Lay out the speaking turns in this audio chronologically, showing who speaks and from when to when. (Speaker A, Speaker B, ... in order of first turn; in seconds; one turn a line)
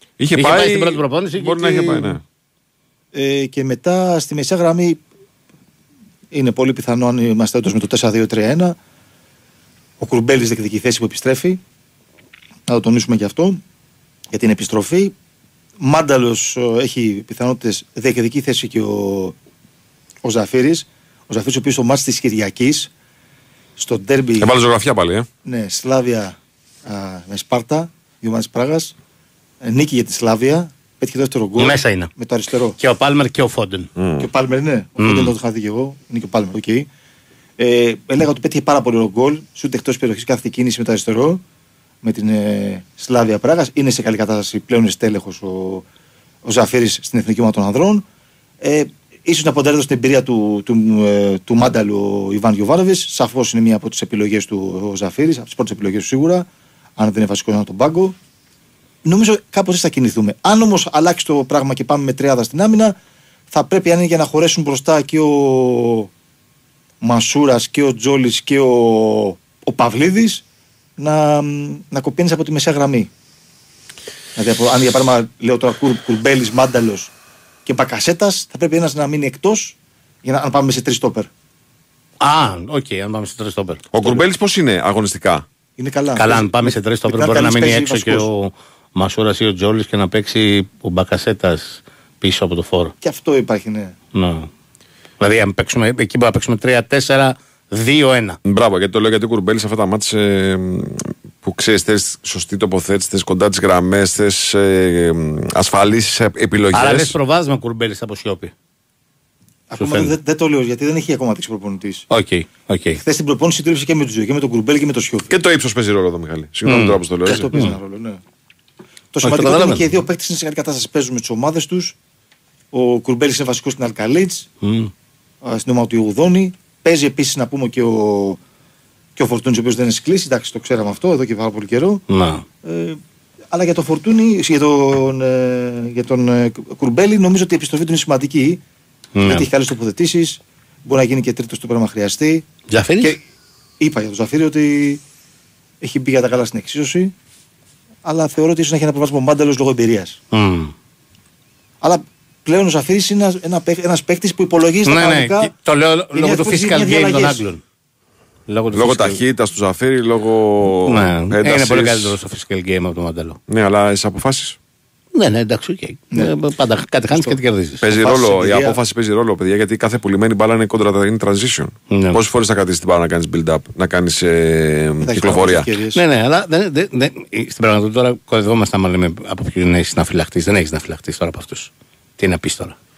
Speaker A: 0.2-2.2
Speaker B: 0.3-2.2
Speaker C: 3.1-5.0
Speaker C: 6.3-8.8
Speaker C: 10.0-11.6
Speaker C: 12.7-13.6
Speaker C: 14.3-15.1
Speaker C: 15.8-19.3
Speaker C: 20.2-22.9
Speaker C: 23.8-24.5
Speaker A: 24.4-25.3
Speaker C: 25.4-28.9
Speaker C: 29.6-32.8
Speaker B: 31.6-32.1
Speaker B: 32.8-33.9
Speaker A: 34.0-34.3
Speaker C: 34.2-36.9
Speaker B: 35.0-35.3
Speaker C: 37.6-41.4
Speaker C: 42.0-45.9
Speaker C: 46.4-48.0
Speaker C: 48.6-56.5
Speaker C: 57.0-58.1
Speaker C: 59.0-62.9
Speaker C: 63.5-66.1
Speaker C: 67.0-70.4
Speaker C: 71.0-73.1
Speaker C: 74.3-77.1
Speaker C: 77.7-81.3
Speaker B: 82.2-84.2
Speaker A: 83.9-85.4
Speaker C: 85.8-88.3
Speaker B: 86.2-92.9
Speaker C: 93.0-93.9
Speaker B: 94.1-94.5
Speaker B: 95.2-98.4
Speaker A: 98.4-107.2
Speaker B: 106.7-108.5
Speaker C: 109.7-112.0
Speaker B: 109.8-110.1
Speaker B: 112.1-113.0
Speaker C: 113.0-115.3
Speaker A: 115.3-117.5
Speaker B: 116.7-117.8
Speaker C: 117.2-118.2
Speaker C: 119.1-122.0
Speaker B: 119.2-119.9
Speaker C: 122.7-124.5
Speaker B: 124.6-124.9
Speaker C: 125.4-128.4
Speaker C: 129.2-132.0
Speaker B: 132.1-132.4
Speaker C: 132.6-133.0
Speaker C: 133.5-138.6
Speaker B: 139.2-139.5
Speaker C: 139.2-142.4
Speaker B: 142.7-143.1
Speaker C: 143.8-145.0
Speaker C: 145.8-147.1
Speaker C: 148.0-150.2
Speaker B: 150.3-150.7
Speaker C: 151.8-155.5
Speaker B: 154.8-157.6
Speaker C: 156.1-157.4
Speaker B: 158.5-159.2
Speaker A: 158.7-162.2
Speaker B: 160.8-163.4
Speaker A: 163.5-164.6
Speaker B: 165.1-167.9
Speaker C: 167.1-167.4
Speaker A: 167.8-175.7
Speaker C: 167.9-168.8
Speaker B: 171.9-172.2
Speaker C: 175.0-176.0
Speaker B: 175.9-182.7